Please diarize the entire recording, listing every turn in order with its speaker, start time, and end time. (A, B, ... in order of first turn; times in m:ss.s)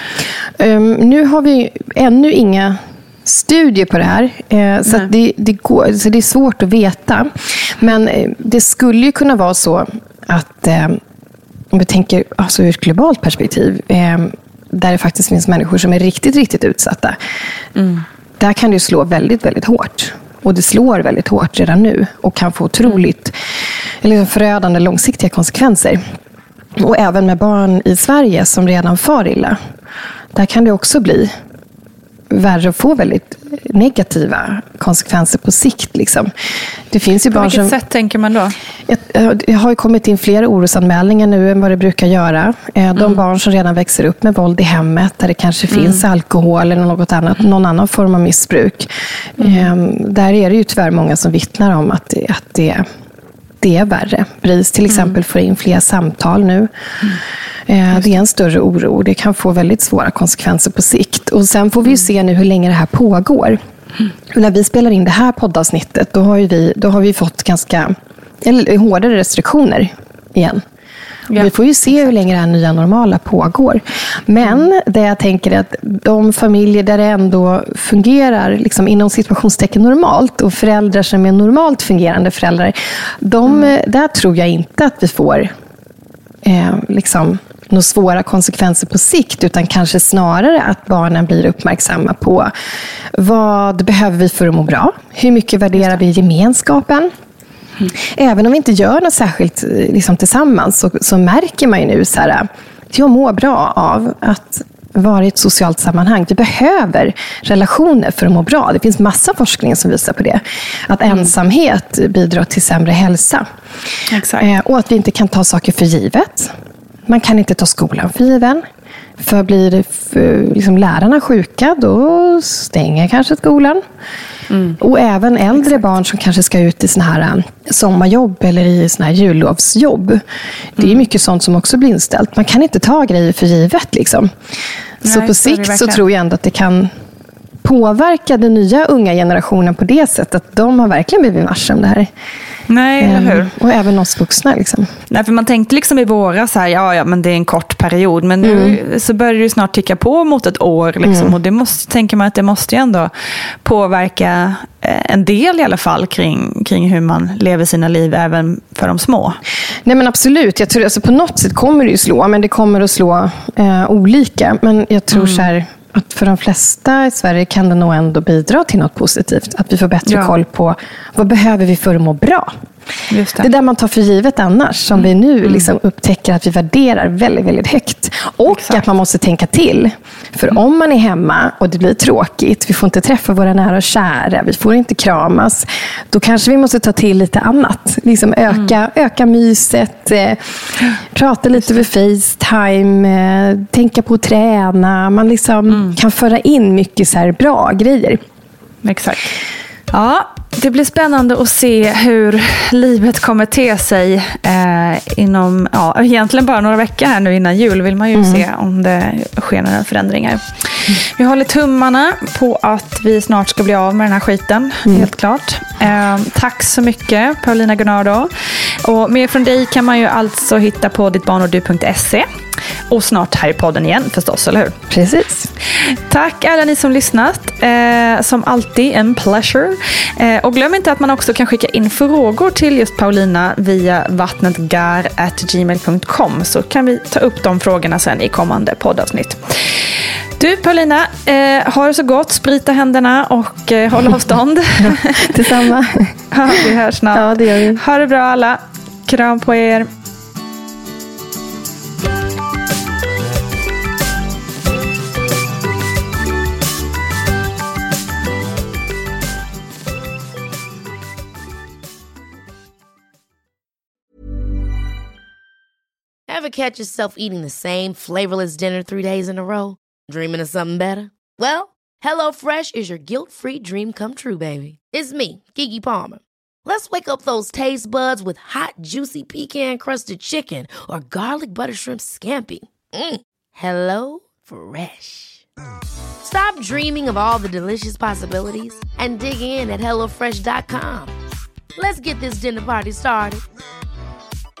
0:00.6-0:11.0 A
0:11.7-0:17.2 A
0:17.7-0:18.0 B
0:18.4-0:23.4 A
0:24.0-0:26.0 A
0:26.8-0:29.6 A
0:30.3-0:31.3 A
0:32.3-0:36.3 A
0:36.9-0:37.7 A
0:37.3-0:38.5 B
0:38.9-0:52.8 A
0:45.7-0:46.0 B
0:49.4-0:49.7 B
0:53.6-0:56.7 A
0:54.9-0:55.2 B
0:57.7-1:03.6 A
1:04.3-1:10.6 A
1:11.3-1:25.5 A
1:26.4-1:32.5 A
1:33.1-1:37.1 A
1:37.9-1:53.4 A
1:54.1-1:54.5 B
1:54.4-1:56.5 A
1:57.0-1:58.6 A
1:59.2-2:03.8 A
2:04.5-2:04.8 B
2:04.8-2:10.2 A
2:10.8-2:14.3 A
2:10.8-2:11.0 B
2:15.0-2:16.0 B
2:15.0-2:16.9 A
2:17.6-2:22.1 A
2:22.7-2:23.5 B
2:23.0-2:24.9 A
2:25.1-2:33.1 B
2:28.4-2:28.8 A
2:31.0-2:31.3 A
2:33.6-2:39.4 B
2:39.8-2:52.5 A
2:45.1-2:45.5 B
2:50.0-2:50.3 B
2:53.1-2:53.5 B
2:53.4-3:10.4 A
2:55.4-2:55.7 B
2:58.5-2:58.8 B
3:08.5-3:08.8 B
3:11.1-3:18.2 A
3:15.7-3:16.0 B
3:18.8-3:19.3 B
3:19.9-3:38.3 B
3:28.1-3:28.4 A
3:38.8-3:42.2 B
3:42.9-3:44.8 B
3:44.9-3:45.5 A
3:45.8-4:05.6 B
4:04.8-4:06.6 A
4:06.3-4:09.9 B
4:07.1-4:07.8 A
4:26.3-4:45.4 C
4:46.2-4:51.1 C
4:51.8-4:53.4 C